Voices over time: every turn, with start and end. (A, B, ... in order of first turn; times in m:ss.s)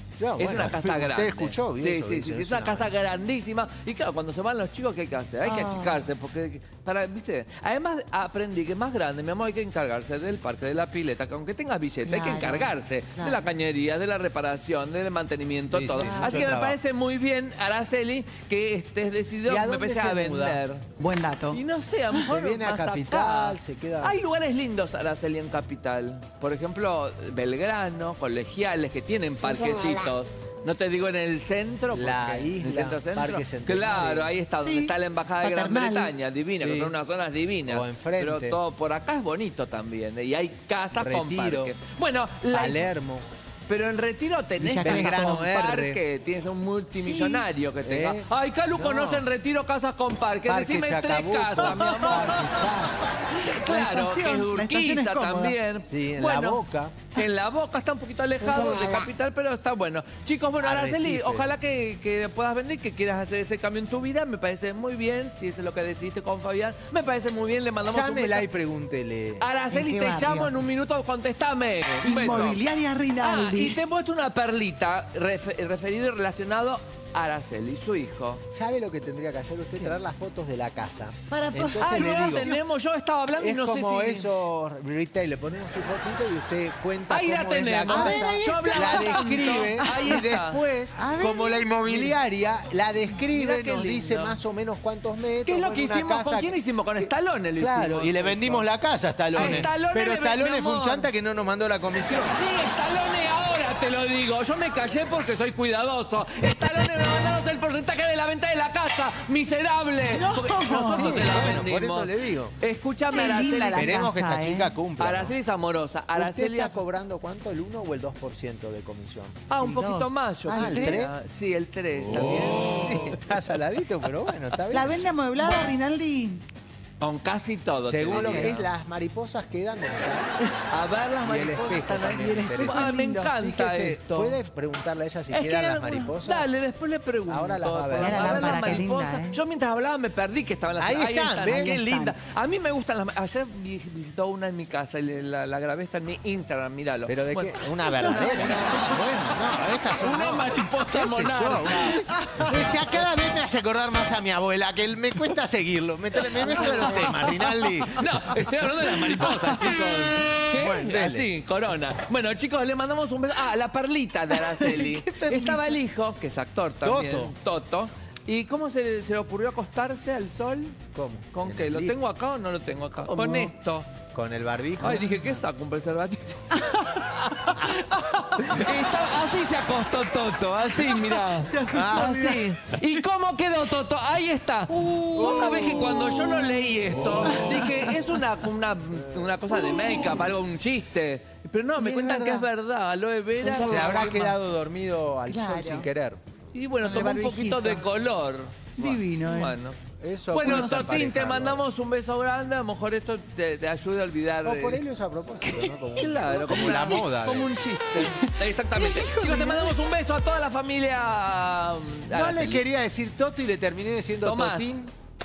0:00.2-0:03.0 A
0:00.4-0:20.9 B
0:05.4-0:06.1 C
0:12.0-0:13.4 C
0:15.7-0:16.8 A
0:15.9-0:16.6 C
0:19.5-0:20.6 A
0:21.0-0:21.6 C
0:21.5-0:42.9 B
0:22.2-0:24.2 A
0:29.4-0:30.1 C
0:31.9-0:34.3 A
0:34.5-0:36.2 C
0:36.5-0:37.0 A
0:37.7-0:38.6 A
0:41.0-0:41.8 A
0:42.5-0:43.3 A
0:43.7-0:52.8 B
0:44.6-0:45.4 C
0:44.8-0:46.0 A
0:46.9-0:47.4 C
0:47.8-0:49.3 A
0:50.5-0:53.0 A
0:51.6-0:55.6 C
0:53.4-1:08.5 B
0:55.8-0:57.0 A
0:58.4-0:59.0 C
1:00.6-1:01.6 A
1:07.9-1:09.5 A
1:09.4-1:12.6 B
1:09.7-1:10.6 C
1:12.0-1:13.8 C
1:13.2-1:18.4 B
1:18.5-1:22.5 A
1:21.3-1:22.6 C
1:21.8-1:24.3 B
1:23.4-1:42.4 A
1:27.1-1:30.6 B
1:27.9-1:30.3 C
1:31.0-1:32.2 C
1:33.3-1:34.4 B
1:35.4-1:38.7 B
1:39.3-1:41.1 B
1:39.3-1:39.7 C
1:42.1-1:54.1 B
1:50.1-1:51.3 C
1:50.7-1:52.5 A
1:53.1-1:54.8 C
1:53.7-1:55.4 A
1:55.0-1:56.8 B
1:56.2-1:59.5 A
1:59.5-2:03.4 B
1:59.6-2:01.2 C
2:00.5-2:01.2 A
2:02.0-2:05.5 A
2:04.7-2:06.4 C
2:07.0-2:08.7 B
2:07.8-2:10.4 A
2:08.1-2:08.6 C
2:10.7-2:14.4 B
2:11.2-2:16.5 A
2:12.1-2:13.4 C
2:15.3-2:32.1 B
2:17.3-2:18.9 A
2:18.0-2:19.4 C
2:20.8-2:21.8 A
2:21.4-2:22.2 C
2:27.1-2:38.1 A
2:28.1-2:28.7 C
2:31.9-2:33.0 C
2:36.3-2:39.9 C
2:36.4-2:37.2 B
2:37.9-2:50.8 B
2:40.3-2:41.3 A
2:44.4-2:45.8 C
2:46.8-2:47.4 A
2:50.9-2:52.0 A
2:51.3-2:53.9 B
2:53.0-2:53.5 C
2:54.1-2:55.4 A
2:54.8-3:14.1 B
2:56.5-2:58.8 C
3:00.7-3:02.9 C
3:01.7-3:02.3 A
3:04.7-3:08.2 C
3:05.4-3:05.7 A
3:08.9-3:09.4 A
3:09.5-3:10.2 C
3:11.8-3:12.5 C
3:13.4-3:14.4 C
3:13.5-3:16.2 A
3:15.3-3:15.9 C
3:16.5-3:19.8 B
3:16.8-3:17.9 C
3:18.8-3:19.6 C
3:20.0-3:21.6 A
3:20.3-3:24.8 B
3:20.3-3:21.1 C
3:24.4-3:27.5 A
3:26.0-3:32.7 B
3:26.5-3:27.0 C
3:28.1-3:29.8 C
3:32.1-3:34.9 A
3:34.2-3:34.8 B